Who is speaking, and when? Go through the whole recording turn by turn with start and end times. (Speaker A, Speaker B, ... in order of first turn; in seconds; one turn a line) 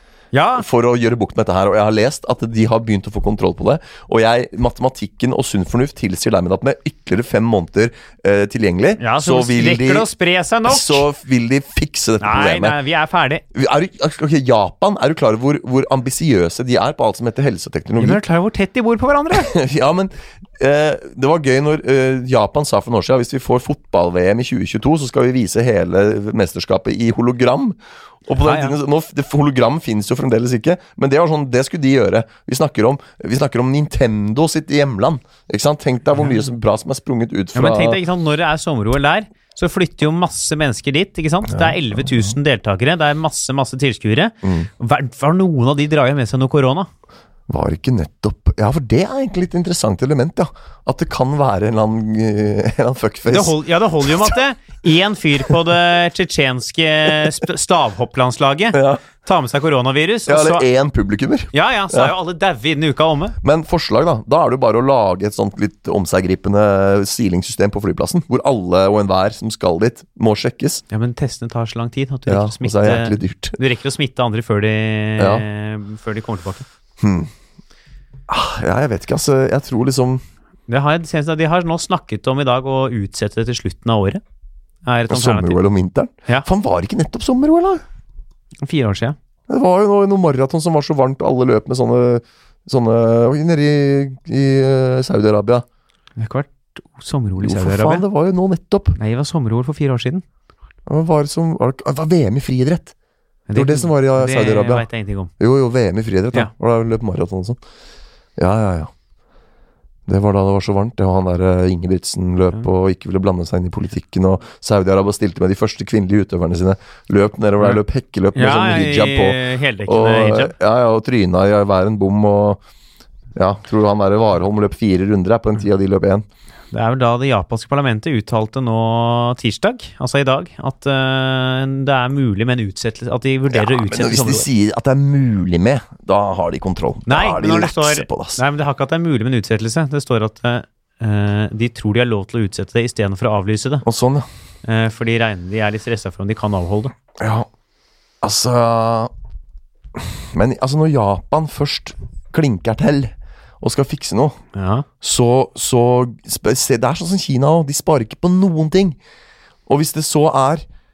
Speaker A: 0.3-0.6
Speaker B: 0.6-10.1
Speaker A: 9.0-11.1
Speaker B: 10.7-12.8
Speaker A: 12.2-13.4
Speaker B: 13.5-18.2
Speaker A: 18.0-19.5
Speaker B: 19.3-38.0
Speaker A: 28.4-28.8
Speaker A: 37.5-46.9
Speaker B: 41.5-42.3
Speaker B: 44.4-44.7
Speaker B: 47.5-54.4
Speaker A: 53.3-60.6
Speaker B: 58.7-59.0
Speaker B: 60.3-62.1
Speaker A: 61.5-63.4
Speaker B: 63.4-70.8
Speaker A: 70.9-76.7
Speaker B: 72.3-73.6
Speaker B: 75.2-75.4
Speaker B: 77.0-77.3
Speaker B: 78.3-80.2
Speaker A: 80.7-84.2
Speaker A: 84.8-85.6
Speaker B: 85.1-87.8
Speaker A: 88.6-89.2
Speaker B: 89.5-95.6
Speaker A: 96.2-98.0
Speaker B: 97.4-99.0
Speaker A: 99.0-100.2
Speaker B: 100.8-102.9
Speaker A: 103.5-105.3
Speaker B: 103.5-104.9
Speaker B: 105.4-107.6
Speaker B: 108.4-108.9
Speaker B: 110.1-122.6
Speaker A: 118.3-120.5
Speaker B: 123.3-126.2
Speaker A: 126.7-134.5
Speaker B: 133.5-138.4
Speaker A: 137.1-143.8
Speaker B: 143.8-144.2
Speaker A: 144.6-146.9
Speaker B: 147.2-147.5
Speaker B: 148.2-149.1
Speaker B: 149.9-154.4
Speaker A: 154.5-154.8
Speaker B: 155.0-159.0
Speaker B: 159.7-160.7